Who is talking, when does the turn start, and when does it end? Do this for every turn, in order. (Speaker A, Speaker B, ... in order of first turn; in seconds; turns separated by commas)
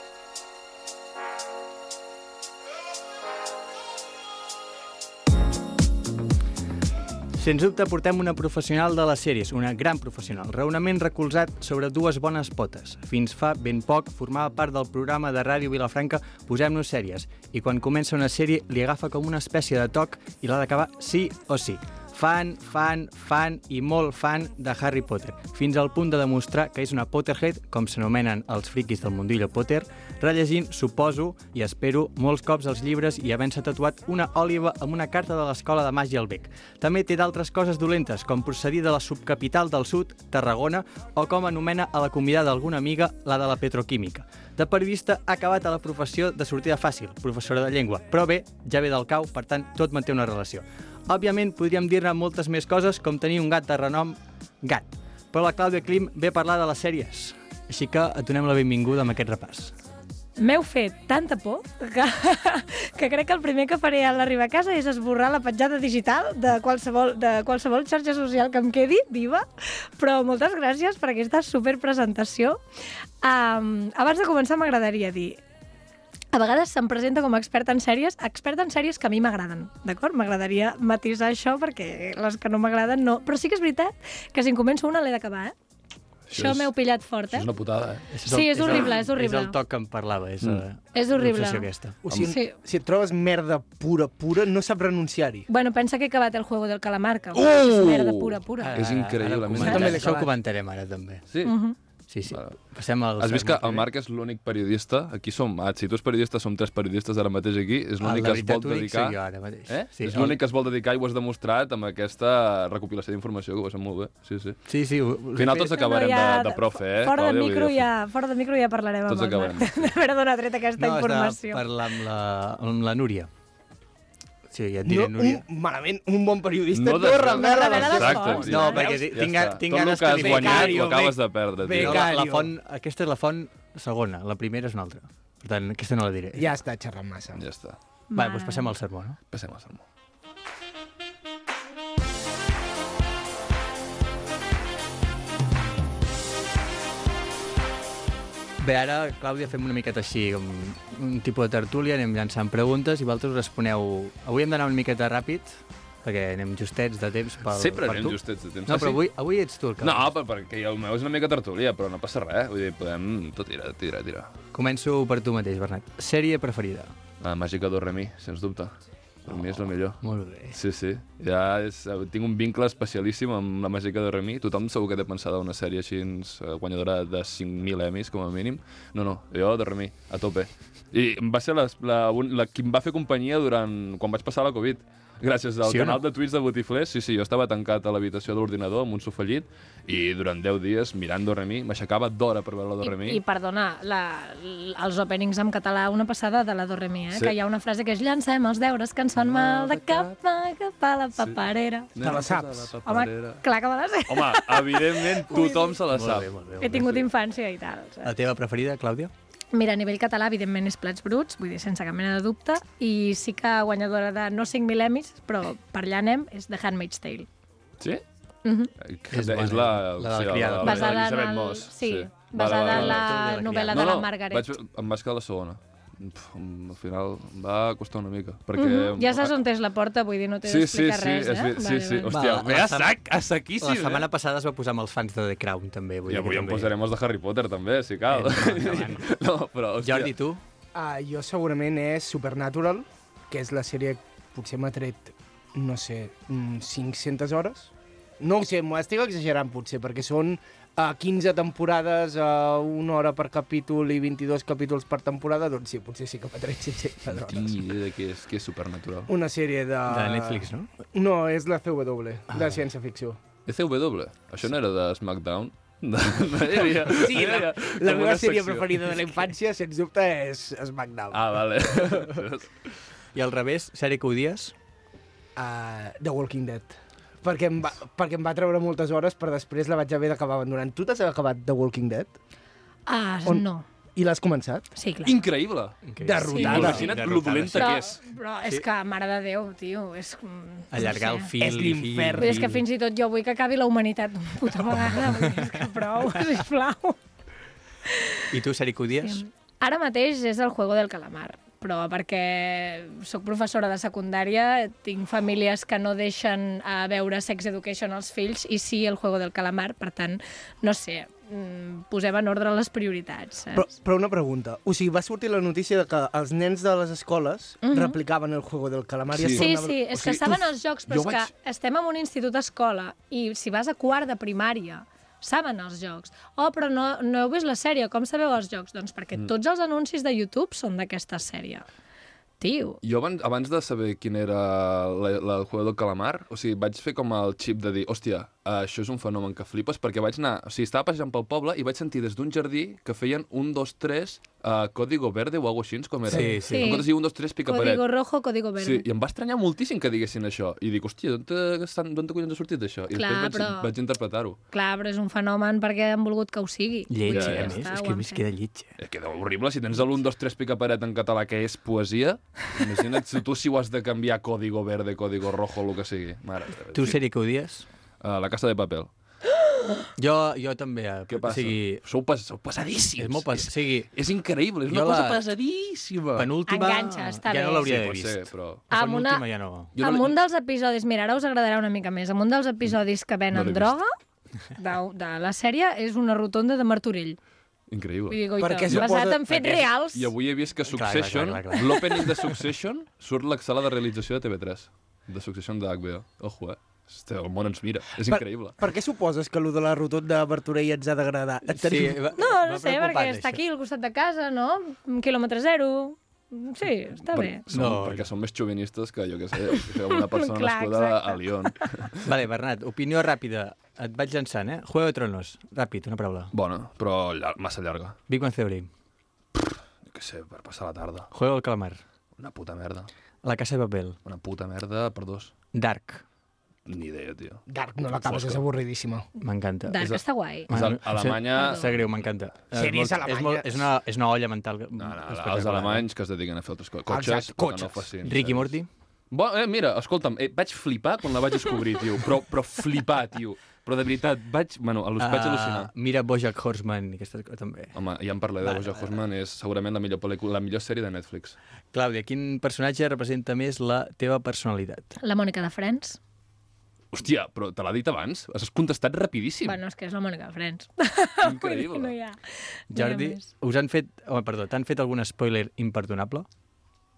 Speaker A: 7.4-59.7, Speaker B: 60.4-72.6, Speaker B: 73.2-75.4, Speaker B: 76.3-85.5, Speaker C: 86.3-86.7, Speaker B: 86.3-87.5, Speaker C: 87.3-88.1, Speaker A: 88.1-92.0, Speaker B: 88.3-89.6, Speaker B: 90.9-92.5, Speaker D: 92.0-95.5, Speaker B: 95.5-98.8, Speaker C: 97.3-100.2, Speaker A: 98.6-101.3, Speaker D: 99.6-100.3, Speaker C: 101.3-101.6, Speaker B: 101.4-101.8, Speaker A: 102.1-103.9, Speaker C: 102.3-102.6, Speaker C: 103.2-114.6, Speaker A: 108.0-110.4, Speaker A: 114.7-115.7, Speaker C: 115.3-117.9, Speaker B: 115.6-121.8, Speaker C: 119.1-119.9, Speaker A: 120.8-123.3, Speaker A: 124.5-125.4, Speaker D: 124.9-132.5, Speaker C: 126.7-132.1, Speaker B: 127.3-128.9, Speaker A: 128.1-130.9, Speaker A: 131.7-136.5, Speaker D: 136.4-137.4, Speaker C: 137.4-137.8, Speaker B: 138.1-138.7, Speaker A: 138.2-139.2, Speaker C: 139.3-139.8, Speaker A: 148.6-160.1, Speaker C: 157.5-159.0, Speaker C: 159.8-164.3, Speaker A: 164.5-166.9, Speaker C: 167.2-168.8, Speaker C: 169.3-170.0, Speaker A: 169.3-170.6, Speaker C: 170.5-193.2, Speaker A: 185.6-186.0, Speaker B: 192.8-201.9, Speaker C: 197.1-197.4, Speaker C: 199.2-200.1, Speaker C: 201.2-201.4, Speaker C: 201.9-203.4, Speaker D: 202.0-202.7, Speaker B: 202.8-205.8, Speaker C: 204.1-207.0, Speaker A: 205.9-207.0, Speaker B: 206.6-208.1, Speaker A: 208.0-209.1, Speaker B: 209.5-217.3, Speaker B: 218.4-218.7, Speaker C: 218.8-223.2, Speaker A: 219.1-221.0, Speaker B: 220.6-224.5, Speaker A: 222.5-223.9, Speaker C: 223.7-229.4, Speaker B: 228.6-232.1, Speaker C: 230.4-234.1, Speaker A: 232.1-232.9, Speaker A: 233.6-236.7, Speaker C: 236.1-240.1, Speaker A: 238.1-239.1, Speaker A: 239.8-240.4, Speaker D: 240.7-257.6, Speaker C: 257.1-259.1, Speaker D: 259.1-263.2, Speaker A: 259.9-260.7, Speaker C: 263.5-269.0, Speaker D: 266.9-271.9, Speaker C: 271.1-272.5, Speaker A: 273.1-274.5, Speaker D: 275.4-282.1, Speaker B: 282.9-283.7, Speaker D: 283.2-284.7, Speaker B: 284.8-285.2, Speaker C: 285.0-288.0, Speaker A: 285.9-287.8, Speaker D: 286.0-287.0, Speaker B: 286.3-286.8, Speaker B: 287.6-291.3, Speaker A: 290.7-292.6, Speaker D: 291.4-292.5, Speaker B: 292.2-297.0, Speaker A: 294.9-295.5, Speaker B: 297.9-298.2, Speaker A: 298.3-299.2, Speaker B: 299.0-313.6, Speaker D: 313.5-320.5, Speaker B: 317.6-318.0, Speaker C: 319.1-319.5, Speaker B: 319.3-331.7, Speaker C: 320.9-321.3, Speaker B: 332.4-332.8, Speaker C: 332.8-347.9, Speaker A: 346.1-346.8, Speaker B: 346.1-346.9, Speaker B: 347.5-348.9, Speaker C: 348.6-354.4, Speaker B: 352.9-353.7, Speaker B: 354.5-358.2, Speaker A: 356.9-358.7, Speaker C: 357.1-357.6, Speaker C: 358.8-367.0, Speaker A: 366.7-367.7, Speaker C: 368.0-368.9, Speaker A: 370.0-371.8, Speaker C: 371.1-376.3, Speaker A: 373.0-373.9, Speaker A: 374.7-375.2, Speaker A: 376.2-379.8, Speaker B: 376.5-377.7, Speaker C: 377.6-378.6, Speaker B: 378.7-379.2, Speaker C: 379.8-380.2, Speaker B: 379.8-383.9, Speaker C: 383.3-383.7, Speaker B: 384.6-387.2, Speaker C: 387.7-388.9, Speaker B: 388.1-390.1, Speaker D: 388.4-389.7, Speaker C: 389.9-398.6, Speaker A: 390.7-392.4, Speaker D: 398.1-402.1, Speaker A: 401.4-403.4, Speaker B: 402.2-407.4, Speaker C: 407.1-412.1, Speaker A: 407.5-408.1, Speaker B: 409.6-411.2, Speaker A: 412.0-416.3, Speaker C: 416.3-418.0, Speaker A: 418.1-418.7, Speaker C: 419.4-421.1, Speaker A: 421.1-421.8, Speaker C: 422.2-422.9, Speaker A: 423.2-424.0, Speaker C: 424.1-425.3, Speaker A: 425.5-426.0, Speaker C: 426.7-428.4, Speaker D: 427.5-429.1, Speaker A: 429.2-429.8, Speaker B: 429.7-430.5, Speaker C: 429.8-431.8, Speaker A: 430.5-435.9, Speaker B: 431.4-431.7, Speaker D: 432.5-433.7, Speaker C: 434.8-438.5, Speaker D: 436.9-437.9, Speaker A: 438.0-438.7, Speaker C: 439.1-445.7, Speaker A: 445.0-447.8, Speaker C: 447.7-451.4, Speaker A: 448.4-448.9, Speaker A: 451.7-455.0, Speaker B: 455.0-456.0, Speaker C: 456.9-459.6, Speaker B: 459.4-463.3, Speaker C: 461.2-461.9, Speaker A: 462.7-466.3